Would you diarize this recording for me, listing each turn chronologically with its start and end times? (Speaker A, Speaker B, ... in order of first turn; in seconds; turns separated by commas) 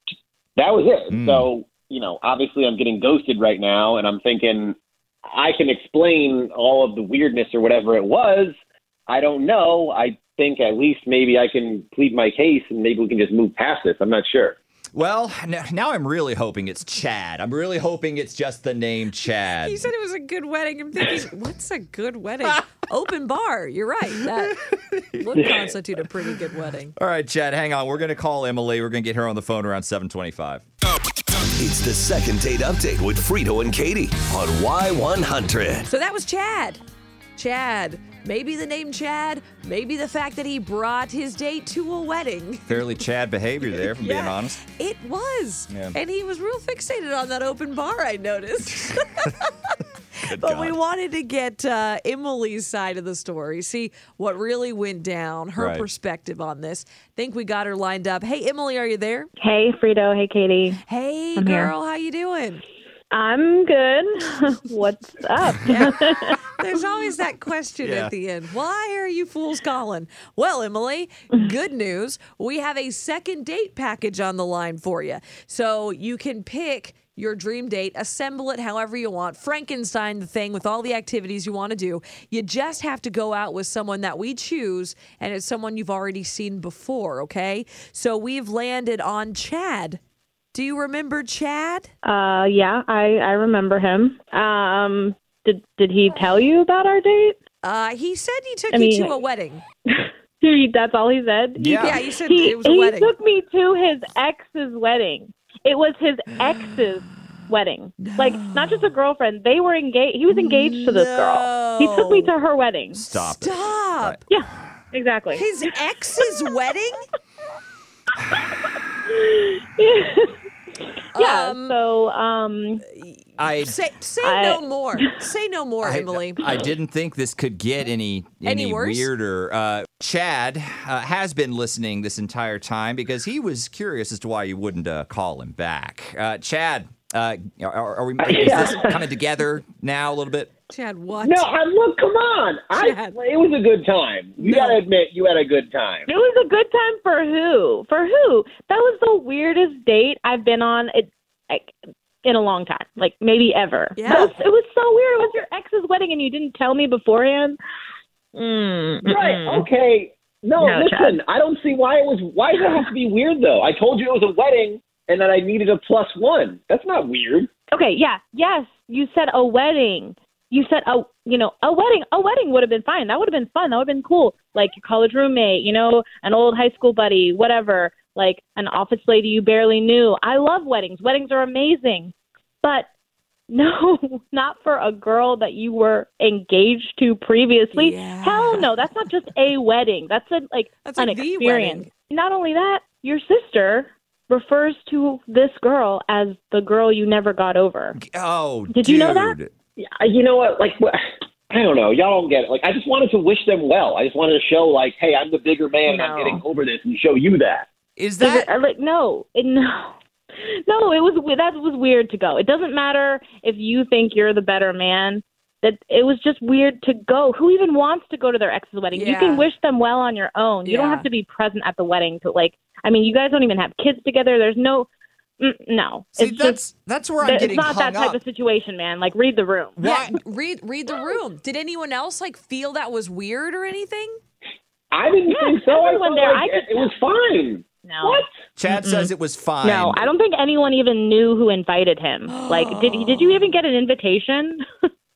Speaker A: 0.6-8.5, Speaker B: 1.1-1.5, Speaker A: 9.1-14.6, Speaker B: 14.9-19.9, Speaker C: 19.6-24.6, Speaker B: 24.4-25.4, Speaker C: 25.2-26.9, Speaker B: 26.9-30.6, Speaker D: 31.5-35.9, Speaker C: 35.9-36.8, Speaker C: 37.4-42.9, Speaker B: 42.7-44.6, Speaker C: 43.6-59.3, Speaker B: 45.7-46.0, Speaker B: 50.2-50.8, Speaker B: 55.6-55.8, Speaker E: 59.4-60.8, Speaker C: 60.8-62.6, Speaker E: 61.4-61.7, Speaker E: 63.1-66.4, Speaker C: 65.6-90.0, Speaker B: 67.8-68.1, Speaker C: 90.5-91.9, Speaker E: 92.0-97.4, Speaker C: 97.6-99.6, Speaker E: 98.7-99.1, Speaker E: 99.9-113.0, Speaker B: 101.6-102.0, Speaker C: 101.8-103.1, Speaker C: 106.4-107.0, Speaker C: 108.0-108.9, Speaker C: 110.3-112.3, Speaker B: 112.9-114.2, Speaker C: 113.1-114.2, Speaker E: 114.3-115.5, Speaker C: 115.3-117.0, Speaker E: 118.2-120.3, Speaker C: 121.1-121.8, Speaker E: 121.1-122.8, Speaker C: 122.9-126.4, Speaker B: 123.4-123.7, Speaker E: 124.2-125.1, Speaker B: 125.8-140.5, Speaker C: 128.4-129.1, Speaker A: 138.2-139.0, Speaker C: 140.7-141.5, Speaker A: 141.2-146.1, Speaker C: 142.7-143.2, Speaker C: 144.4-144.8, Speaker E: 146.1-151.7, Speaker E: 152.2-157.6, Speaker C: 153.9-154.3, Speaker E: 158.3-159.7, Speaker A: 159.1-167.5, Speaker E: 160.6-161.2, Speaker E: 167.7-182.9, Speaker E: 183.5-198.0, Speaker C: 187.7-188.9, Speaker C: 190.8-191.9, Speaker B: 198.0-199.5, Speaker E: 198.7-199.3, Speaker A: 199.8-207.7, Speaker E: 205.8-206.4, Speaker B: 208.0-208.5, Speaker E: 208.2-224.9, Speaker C: 218.9-219.5, Speaker C: 220.6-221.1, Speaker E: 225.4-226.6, Speaker B: 226.2-228.2, Speaker E: 227.2-230.1, Speaker B: 229.8-230.2, Speaker C: 229.8-234.2, Speaker A: 234.9-238.2, Speaker E: 235.3-236.9, Speaker E: 237.7-239.1, Speaker B: 238.6-240.1, Speaker E: 239.6-244.6, Speaker C: 242.2-243.5